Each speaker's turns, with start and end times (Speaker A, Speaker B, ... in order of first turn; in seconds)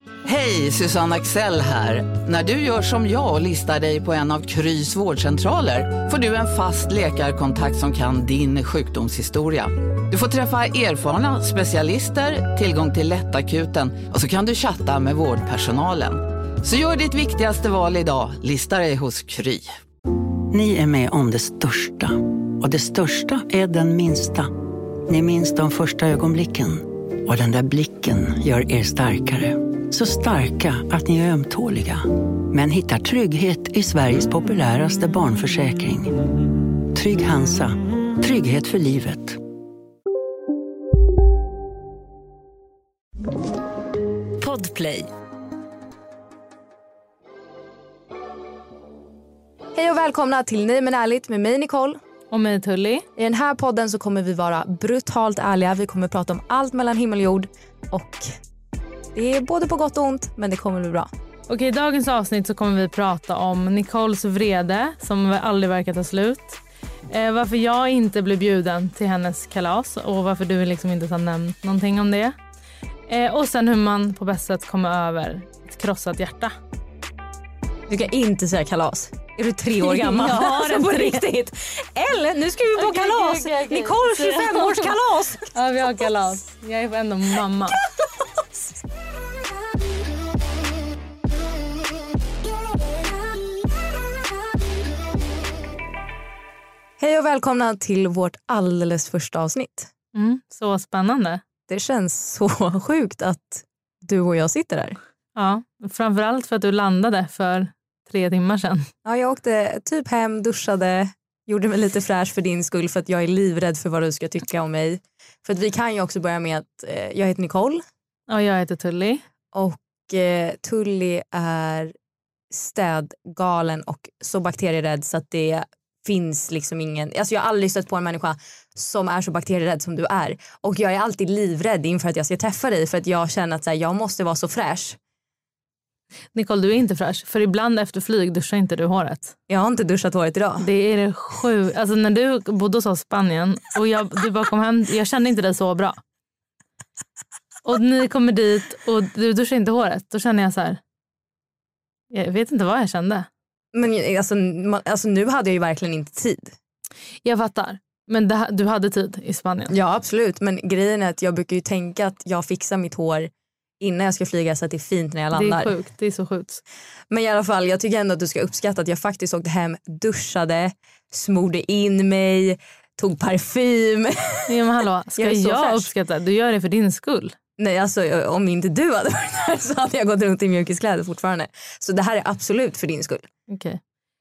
Speaker A: 0.2-19.7
Speaker B: 20.5-24.5, 25.1-36.2, 36.8-39.4
Speaker C: 49.7-52.0, 53.2-58.4, 59.1-61.1, 77.9-85.5, 97.0-99.9, 101.7-105.0, 109.0-117.8, 119.5-121.9, 122.5-135.0, 139.5-140.7, 153.7-156.5, 159.7-165.7, 167.1-174.5, 175.2-175.9, 177.6-183.3
Speaker D: 52.3-53.1, 61.5-72.3, 73.1-76.5, 79.8-81.2, 82.8-85.0, 85.5-87.8, 100.1-101.4, 105.3-108.9, 118.3-119.2, 136.3-139.3, 140.6-146.0, 147.6-150.8, 152.1-153.3, 157.2-159.7, 165.3-166.6, 174.5-177.3, 183.5-183.8